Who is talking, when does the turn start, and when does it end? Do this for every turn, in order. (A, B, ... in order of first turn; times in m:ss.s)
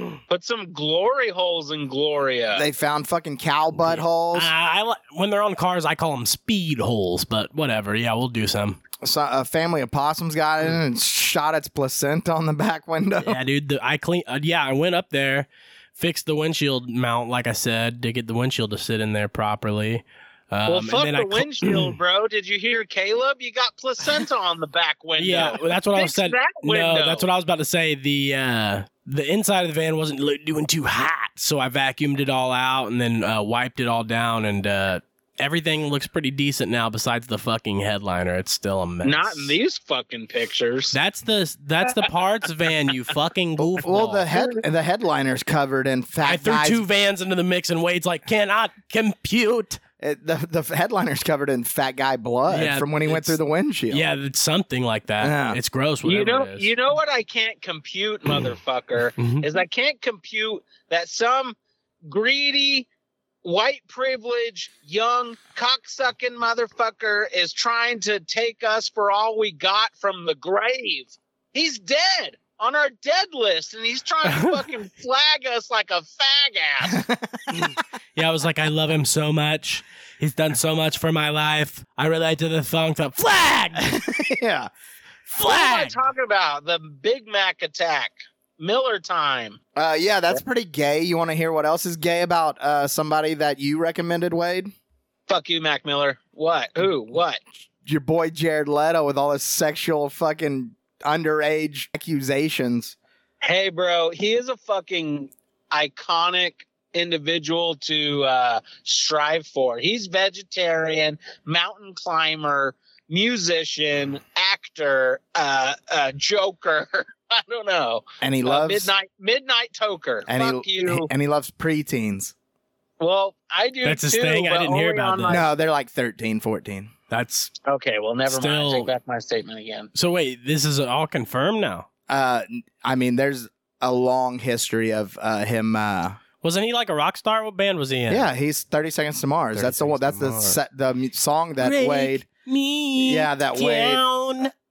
0:00.3-0:02.6 A
0:02.6-0:04.5 B
0:03.8-0:08.8 C
0:09.0-0:13.4 B
0:13.2-0:22.0 C
0:20.7-0:27.3 A
0:25.2-0:39.6 C
0:39.0-0:41.0 A
0:40.9-0:44.3 C
0:43.6-0:46.8 B
0:46.2-0:49.8 C
0:50.0-0:54.0 B
0:52.5-0:53.4 C
0:53.9-0:56.7 C
0:55.2-0:55.6 B
0:56.0-1:02.9 A
0:59.2-0:59.4 C
1:03.4-1:17.0 A
1:16.9-1:17.6 B
1:17.5-1:24.0 C
1:23.9-1:24.7 B
1:25.3-1:26.0 C
1:25.4-1:29.6 A
1:29.8-1:34.7 B
1:35.3-1:37.4 A
1:37.8-1:43.0 B
1:43.4-2:01.1 A
1:58.2-1:58.9 B
2:00.3-2:02.3 B
2:03.0-2:05.5 A
2:03.8-2:05.4 C
2:05.3-2:06.9 B
2:07.1-2:07.5 C
2:07.7-2:09.9 A
2:08.3-2:08.9 C
2:10.0-2:11.9 C
2:12.1-2:16.2 B
2:16.4-2:18.3 C
2:18.1-2:22.3 B
2:19.5-2:20.6 C
2:21.6-2:24.5 C
2:23.0-2:24.0 B